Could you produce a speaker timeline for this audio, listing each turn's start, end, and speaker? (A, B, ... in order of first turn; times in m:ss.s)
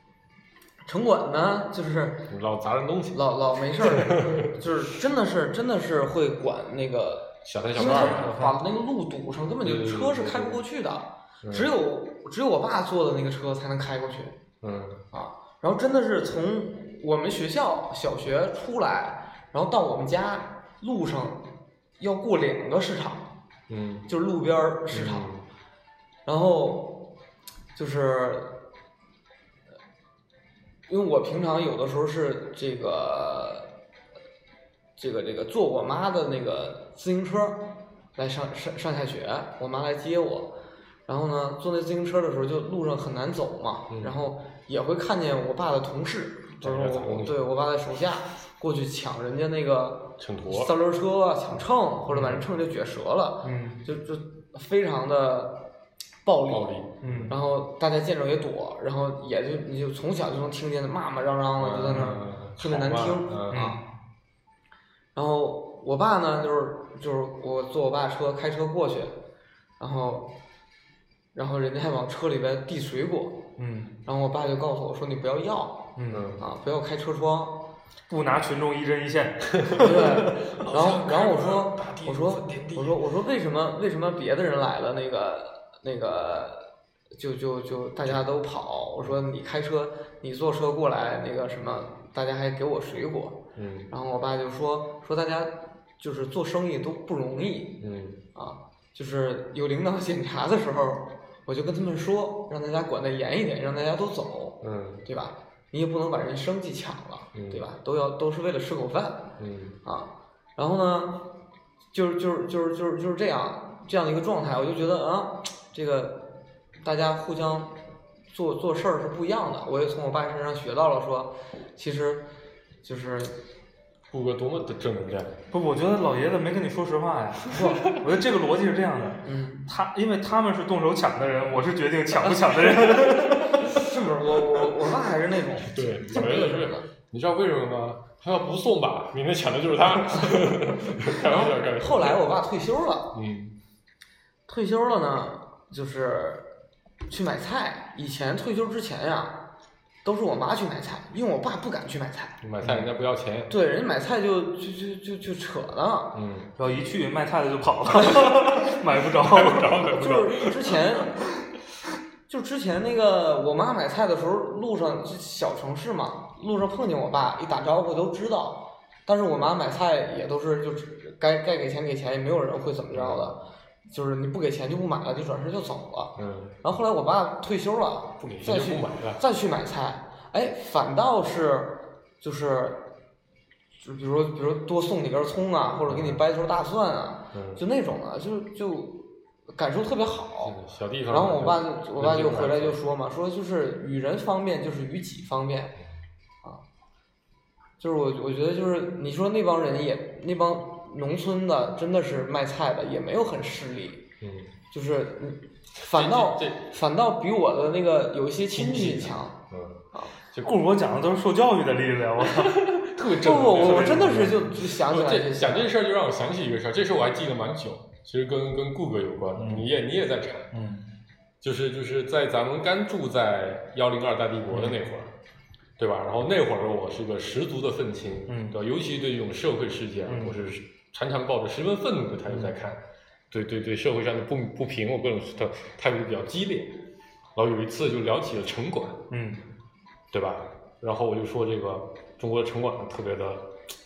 0:00.8-0:02.3 A
0:02.3-0:03.2 B
0:03.1-0:14.4 A
0:03.8-0:04.5 B
0:07.4-0:08.4 B
0:07.8-0:08.6 C
0:09.6-0:10.6 B
0:11.4-0:11.7 B
0:14.6-0:15.0 B
0:15.1-0:23.3 A
0:23.7-0:24.1 B
0:24.1-0:25.3 A
0:24.9-0:25.4 B
0:26.2-0:27.1 A
0:27.7-0:28.6 A
0:30.9-0:33.7 A
0:35.0-0:40.5 A
0:41.1-0:55.7 A
0:43.9-0:44.2 B
0:46.6-0:47.4 B
0:50.2-0:50.7 B
0:52.1-0:52.4 C
0:53.4-0:53.8 C
0:56.2-1:03.8 A
0:56.5-0:57.3 B
0:57.0-0:57.3 C
1:01.6-1:03.7 B
1:01.9-1:02.2 C
1:03.5-1:03.8 C
1:05.1-1:09.2 A
1:09.8-1:10.3 A
1:11.3-1:13.4 A
1:13.6-1:13.9 C
1:14.0-1:17.6 A
1:16.0-1:16.3 C
1:16.1-1:16.4 B
1:18.1-1:20.3 C
1:19.6-1:23.0 B
1:19.8-1:26.6 A
1:27.2-1:37.8 A
1:33.6-1:33.9 B
1:37.8-1:38.2 B
1:38.3-1:49.3 A
1:44.6-1:45.0 B
1:47.3-1:47.6 B
1:49.4-1:49.8 B
1:49.8-1:51.3 A
1:51.9-1:57.8 A
1:58.3-2:02.2 A
2:02.8-2:03.4 A
2:04.1-2:05.3 B
2:05.5-2:13.6 C
2:07.5-2:07.8 A
2:09.2-2:09.7 A
2:13.1-2:16.8 A
2:15.6-2:22.2 B
2:20.1-2:23.2 A
2:23.1-2:23.6 B
2:24.5-2:26.5 A
2:27.1-2:29.4 A
2:30.0-2:32.4 A
2:32.4-2:33.5 B
2:33.5-2:36.1 A
2:36.1-2:36.5 B
2:36.6-2:39.7 C
2:39.1-2:41.0 B
2:39.6-2:41.2 A
2:42.3-3:02.8 A
2:52.9-2:53.3 B
2:56.2-2:56.6 B
2:58.2-2:59.2 B
3:03.8-3:10.6 A
3:05.9-3:06.2 B
3:07.3-3:07.6 B
3:10.4-3:12.8 B
3:11.1-3:15.7 A
3:17.8-3:24.0 A
3:24.2-3:24.5 B
3:24.7-3:29.4 A
3:25.8-3:26.7 B
3:28.5-3:30.6 B
3:30.4-3:32.6 C
3:32.2-3:40.5 B
3:33.1-3:35.7 A
3:33.5-3:34.4 C
3:39.4-3:39.7 C
3:40.5-3:40.8 C
3:41.4-3:45.1 B
3:44.5-3:44.8 C
3:45.8-3:56.8 B
3:48.3-3:48.6 C
3:50.1-3:50.4 C
3:52.3-3:52.5 C
3:57.3-3:59.0 B
3:59.1-3:59.4 C
4:00.1-4:03.6 B